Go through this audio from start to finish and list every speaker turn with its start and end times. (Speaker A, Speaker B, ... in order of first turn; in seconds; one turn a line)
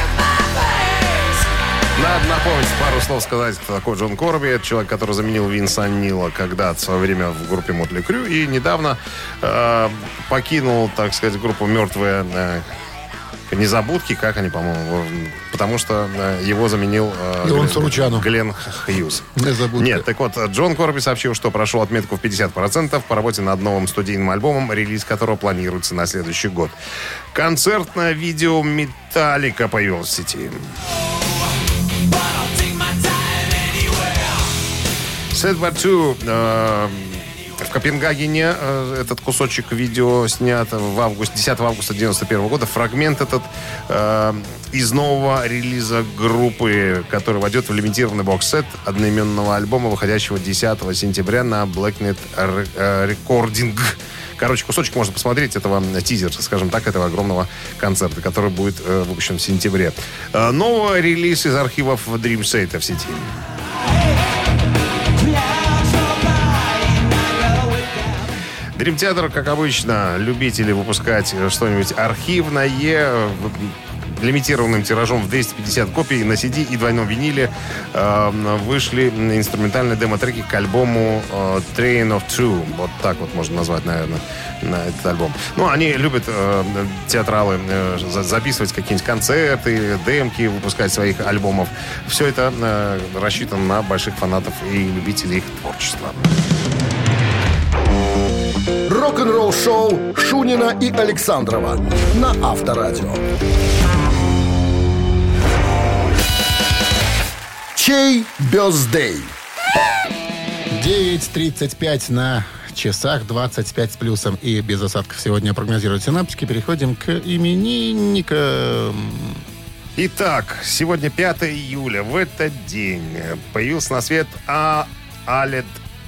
Speaker A: 1.9-12.7
Speaker A: 13.5-26.7
Speaker B: 17.4-18.3
Speaker B: 19.3-20.0
Speaker A: 27.3-30.7
Speaker A: 35.3-63.3
Speaker A: 68.8-96.3
Speaker C: 98.9-103.2
Speaker C: 107.7-109.3
Speaker B: 110.7-119.4
Speaker A: 120.0-125.8